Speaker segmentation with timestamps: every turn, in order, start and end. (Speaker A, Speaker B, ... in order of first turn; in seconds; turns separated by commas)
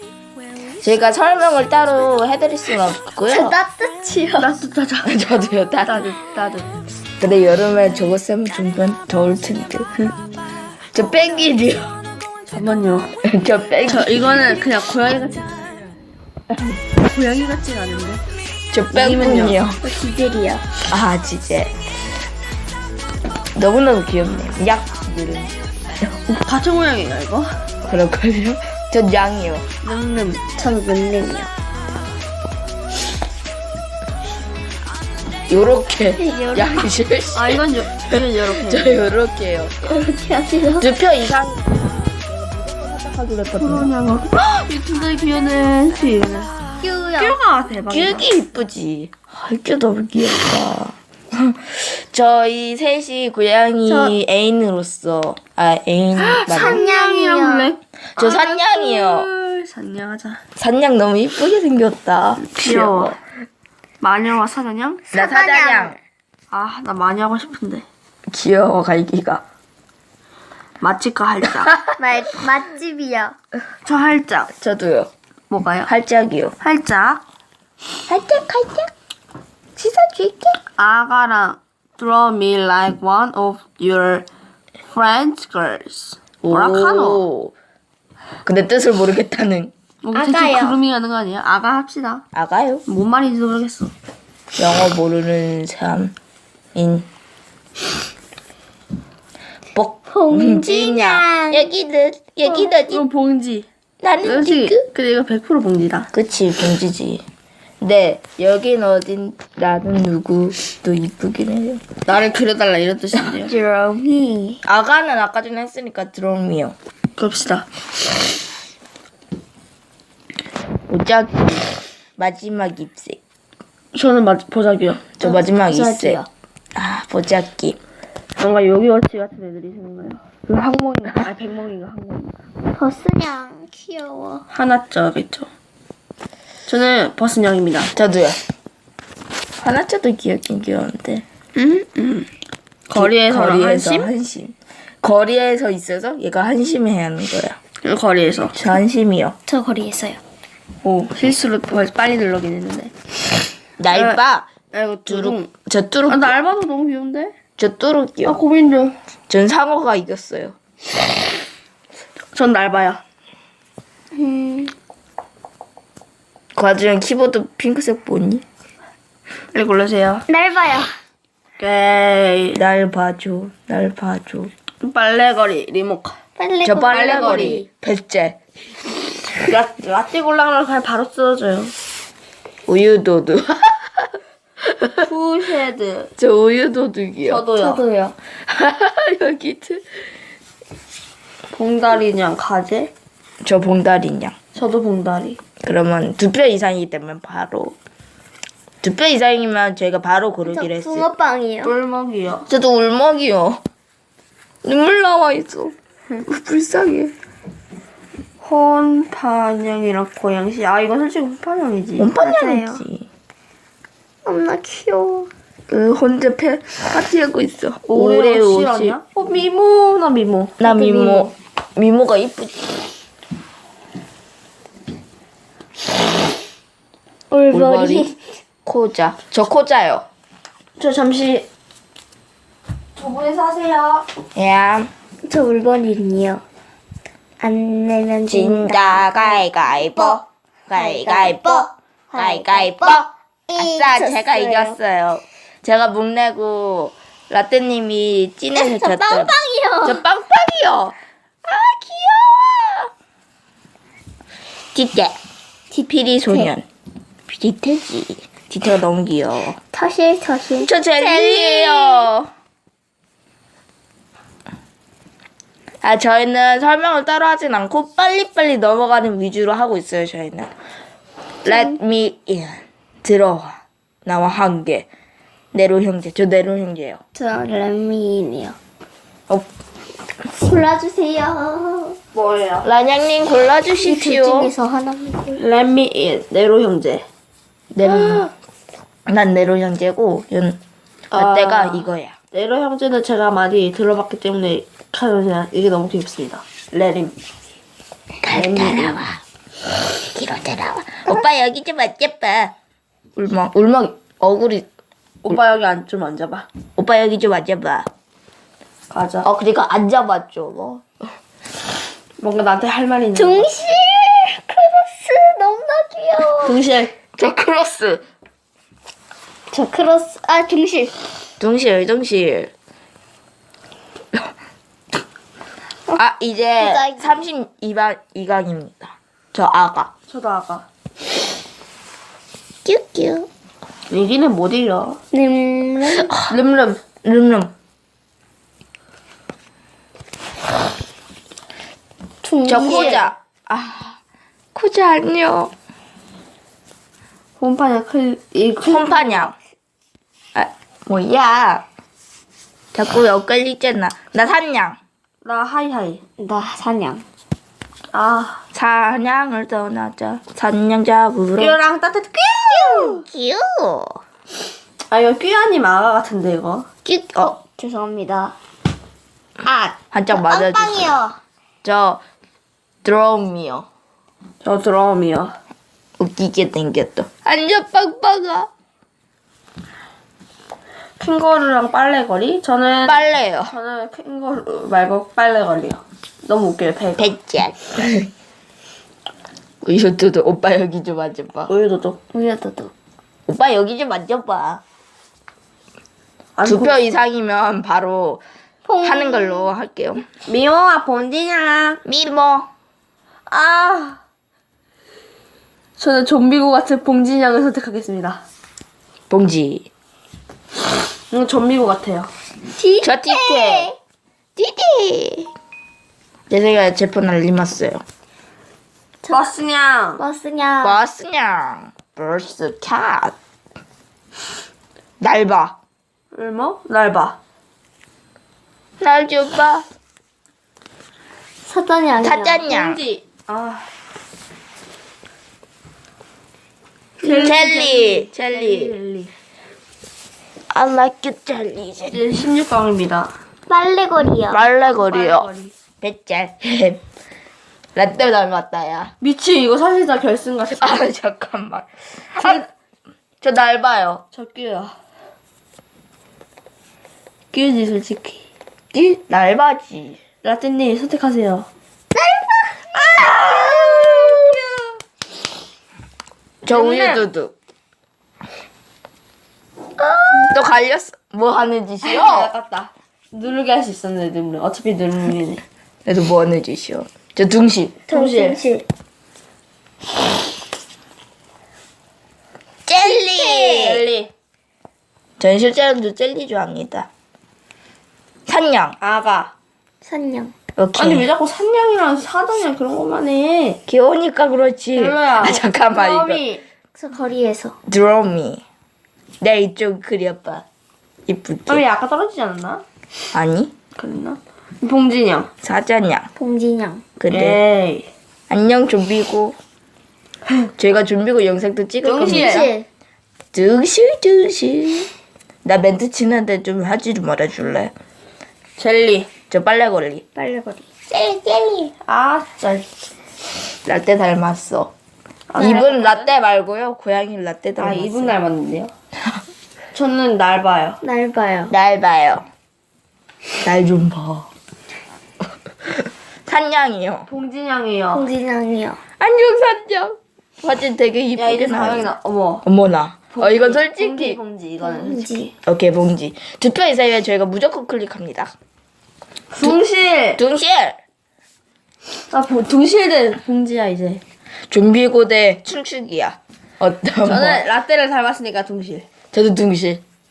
Speaker A: 0.8-3.6, Speaker B: 3.3-4.5, Speaker C: 4.4-5.1, Speaker A: 5.0-6.1, Speaker C: 5.8-6.7, Speaker A: 7.2-9.9, Speaker A: 10.9-12.0, Speaker C: 12.5-13.2, Speaker A: 13.2-14.5, Speaker C: 13.9-15.8, Speaker C: 17.0-18.2, Speaker A: 18.7-19.8, Speaker C: 18.9-19.6, Speaker B: 19.8-20.7, Speaker A: 20.9-21.7, Speaker A: 23.6-25.6, Speaker C: 26.2-27.5, Speaker A: 27.8-29.6, Speaker C: 29.8-30.4, Speaker B: 30.6-31.5, Speaker A: 35.5-39.9, Speaker B: 36.2-36.9, Speaker C: 37.3-39.0, Speaker B: 39.9-40.9, Speaker A: 40.8-43.9, Speaker C: 43.5-48.3, Speaker B: 46.8-47.4, Speaker A: 47.9-56.8, Speaker C: 53.9-54.1, Speaker C: 56.2-60.4, Speaker B: 56.5-57.7, Speaker A: 58.1-59.3, Speaker A: 60.6-63.2, Speaker C: 62.4-63.2, Speaker C: 64.0-65.0, Speaker B: 65.1-66.0, Speaker A: 65.1-66.0, Speaker C: 66.5-67.9, Speaker A: 68.3-69.4, Speaker C: 70.8-71.8, Speaker B: 72.0-73.3, Speaker C: 73.8-74.5, Speaker A: 74.6-75.1, Speaker C: 75.5-75.9, Speaker A: 75.8-76.5, Speaker C: 76.6-77.2, Speaker B: 78.1-78.9, Speaker B: 79.8-80.6, Speaker C: 80.8-84.3, Speaker C: 84.9-87.3, Speaker A: 86.4-87.5, Speaker A: 88.5-89.7, Speaker C: 90.0-92.2, Speaker B: 90.1-90.8, Speaker A: 92.3-92.8, Speaker C: 92.9-93.9, Speaker A: 94.6-96.1, Speaker A: 96.8-97.1, Speaker A: 99.8-103.0, Speaker B: 100.1-101.7, Speaker C: 102.5-103.7, Speaker A: 104.0-104.9, Speaker C: 104.2-106.1, Speaker A: 106.1-107.2, Speaker A: 107.8-111.8, Speaker C: 112.1-113.5, Speaker B: 113.4-114.6, Speaker A: 114.6-116.8, Speaker C: 117.2-117.7, Speaker A: 120.9-123.2, Speaker C: 123.9-125.1, Speaker A: 125.2-126.2, Speaker B: 125.2-126.3, Speaker A: 126.8-127.8, Speaker C: 128.4-132.3, Speaker B: 132.7-134.4, Speaker C: 134.5-135.5, Speaker C: 136.7-137.9, Speaker A: 137.9-138.4, Speaker A: 139.6-141.2, Speaker C: 141.6-142.3, Speaker C: 142.9-144.1, Speaker A: 142.9-147.6, Speaker C: 147.8-148.7, Speaker A: 148.5-149.4, Speaker B: 149.5-150.2, Speaker C: 150.8-152.9, Speaker A: 153.8-154.5, Speaker C: 153.9-154.2, Speaker C: 154.7-155.5, Speaker A: 155.1-156.3, Speaker C: 156.1-157.3, Speaker A: 157.6-158.4, Speaker C: 158.3-159.0, Speaker A: 159.3-160.6, Speaker C: 162.3-163.0, Speaker B: 164.2-164.7, Speaker A: 166.6-168.4, Speaker C: 169.5-170.2, Speaker B: 170.3-170.9, Speaker C: 171.6-172.6, Speaker A: 172.6-174.5, Speaker C: 174.8-176.2, Speaker B: 176.4-177.7, Speaker A: 176.6-178.4, Speaker C: 176.8-177.6, Speaker C: 179.4-181.7, Speaker A: 182.7-184.1, Speaker A: 184.6-185.0, Speaker C: 185.0-186.1, Speaker A: 186.2-187.5, Speaker C: 187.2-187.8, Speaker B: 187.6-188.2, Speaker A: 188.5-190.1, Speaker C: 191.5-192.9, Speaker A: 193.4-194.4, Speaker C: 194.5-195.4, Speaker A: 195.6-197.7, Speaker A: 198.8-201.1, Speaker B: 200.5-201.7, Speaker C: 201.6-202.5, Speaker A: 202.5-203.6, Speaker A: 204.6-205.7, Speaker A: 206.2-207.1, Speaker C: 208.4-212.1, Speaker A: 212.0-213.1, Speaker B: 212.2-212.8, Speaker B: 214.2-215.3, Speaker A: 215.7-219.0, Speaker C: 217.9-221.3, Speaker A: 220.6-222.8, Speaker B: 227.3-228.2, Speaker A: 227.5-228.1, Speaker A: 228.7-230.1, Speaker C: 230.8-231.5, Speaker C: 233.0-234.1, Speaker A: 234.3-234.9, Speaker B: 235.2-236.4, Speaker B: 237.4-244.8, Speaker A: 238.3-252.9, Speaker B: 248.5-250.0, Speaker A: 254.7-255.2, Speaker B: 255.7-256.5, Speaker A: 255.8-256.6, Speaker B: 257.3-258.1, Speaker A: 258.2-259.6, Speaker B: 259.7-262.1, Speaker A: 260.6-262.3, Speaker A: 265.8-270.5, Speaker B: 271.4-271.8, Speaker A: 271.4-274.9, Speaker A: 275.5-277.0, Speaker B: 277.1-278.6, Speaker B: 280.3-282.0, Speaker C: 282.1-282.7, Speaker A: 282.6-284.5, Speaker B: 283.8-285.4, Speaker C: 285.4-287.1, Speaker A: 287.7-288.3, Speaker A: 289.1-290.6, Speaker C: 291.1-297.2, Speaker A: 291.1-292.1, Speaker A: 298.2-299.2, Speaker C: 298.3-299.0, Speaker A: 300.1-302.5, Speaker A: 303.2-304.7, Speaker C: 305.2-306.5, Speaker A: 306.8-307.9, Speaker C: 308.9-309.3, Speaker A: 309.2-310.9, Speaker C: 312.2-313.5, Speaker B: 313.1-316.6, Speaker C: 316.4-316.9, Speaker A: 317.2-318.0, Speaker B: 319.5-321.0, Speaker A: 321.4-322.5, Speaker A: 325.9-329.9, Speaker B: 326.6-327.2, Speaker C: 330.1-330.7, Speaker B: 332.6-333.3, Speaker C: 333.9-335.0, Speaker B: 335.1-336.2, Speaker C: 336.3-336.8, Speaker A: 337.0-337.5, Speaker B: 342.2-343.1, Speaker A: 342.4-344.0, Speaker C: 342.6-342.9, Speaker A: 344.5-345.5, Speaker C: 347.4-349.3, Speaker A: 348.6-349.4, Speaker A: 350.4-351.6, Speaker A: 352.7-354.8, Speaker C: 355.2-356.0, Speaker B: 356.2-357.1, Speaker C: 357.9-358.4, Speaker A: 358.5-361.6, Speaker C: 361.4-363.0, Speaker B: 362.4-363.1, Speaker A: 363.1-364.0, Speaker C: 364.9-366.7, Speaker A: 366.9-367.4, Speaker B: 367.1-368.4, Speaker B: 369.4-371.2, Speaker A: 369.9-370.9, Speaker A: 371.6-372.0, Speaker A: 372.8-373.7, Speaker C: 374.4-375.4, Speaker A: 376.0-378.5, Speaker C: 381.0-387.1, Speaker A: 382.8-383.5, Speaker A: 387.0-388.1, Speaker A: 389.6-391.5, Speaker C: 391.5-392.0, Speaker B: 392.1-392.7, Speaker A: 393.3-394.6, Speaker C: 396.4-396.8, Speaker A: 396.4-398.2, Speaker B: 398.7-399.5, Speaker A: 398.8-400.1, Speaker C: 400.2-401.8, Speaker A: 401.9-402.5, Speaker C: 403.3-404.0, Speaker C: 405.8-408.2, Speaker A: 409.1-409.7, Speaker C: 411.1-412.1, Speaker B: 412.6-413.8, Speaker A: 412.8-413.7, Speaker A: 414.4-415.3, Speaker A: 416.3-417.8, Speaker B: 419.0-419.3, Speaker C: 419.1-420.0, Speaker B: 420.0-420.8, Speaker A: 420.6-423.1, Speaker A: 425.0-425.6, Speaker C: 426.1-427.2, Speaker A: 428.8-429.6, Speaker B: 431.4-432.5, Speaker A: 432.0-432.8, Speaker C: 432.5-433.7, Speaker C: 437.0-439.1, Speaker A: 437.1-438.8, Speaker A: 440.5-442.0, Speaker C: 441.9-443.1, Speaker B: 443.5-444.4, Speaker A: 444.3-445.3, Speaker C: 444.8-445.5, Speaker A: 445.8-446.8, Speaker A: 447.8-448.9, Speaker C: 449.0-450.8, Speaker A: 450.6-452.4, Speaker C: 452.2-452.4, Speaker A: 453.2-454.0, Speaker C: 454.1-454.8, Speaker C: 457.3-458.2, Speaker A: 458.7-460.0, Speaker C: 460.2-461.5, Speaker B: 461.9-464.4, Speaker C: 463.0-464.4, Speaker A: 466.4-467.3, Speaker C: 466.5-467.1, Speaker B: 469.8-470.5, Speaker A: 470.2-472.3, Speaker C: 471.8-475.4, Speaker A: 475.9-477.8, Speaker B: 477.9-478.7, Speaker C: 477.9-478.4, Speaker A: 482.7-483.9, Speaker C: 483.2-484.1, Speaker A: 485.2-486.9, Speaker A: 488.3-488.8, Speaker C: 488.8-489.3, Speaker B: 489.8-490.3, Speaker A: 490.6-491.1, Speaker C: 490.8-493.6, Speaker A: 493.7-496.2, Speaker C: 494.7-496.4, Speaker B: 496.8-497.6, Speaker A: 497.7-498.4, Speaker A: 499.2-500.4, Speaker A: 501.1-501.6, Speaker C: 501.5-502.6, Speaker A: 503.1-503.5, Speaker C: 503.8-505.3, Speaker A: 505.4-506.1, Speaker B: 506.2-506.9, Speaker A: 507.0-507.4, Speaker C: 507.1-507.9, Speaker A: 508.3-509.4, Speaker A: 510.6-512.5, Speaker C: 511.8-512.5, Speaker B: 512.0-512.7, Speaker A: 513.3-514.9, Speaker A: 515.4-517.7, Speaker C: 518.6-519.1, Speaker A: 519.3-520.0, Speaker B: 520.2-521.7, Speaker C: 521.9-522.7, Speaker A: 523.6-524.7, Speaker C: 525.3-526.1, Speaker A: 525.4-528.1, Speaker C: 527.6-528.7, Speaker C: 529.7-530.8, Speaker B: 530.8-531.5, Speaker A: 531.5-532.3, Speaker A: 533.4-534.3, Speaker A: 535.6-537.1, Speaker C: 537.1-538.1, Speaker B: 537.9-538.8, Speaker A: 539.0-541.9, Speaker C: 541.1-542.5, Speaker A: 542.4-544.2, Speaker C: 543.1-545.3, Speaker B: 544.6-545.3, Speaker A: 545.4-548.3, Speaker C: 549.3-550.2, Speaker A: 550.2-550.8, Speaker C: 552.1-554.0, Speaker A: 554.5-557.4, Speaker C: 557.0-558.9, Speaker A: 559.1-559.8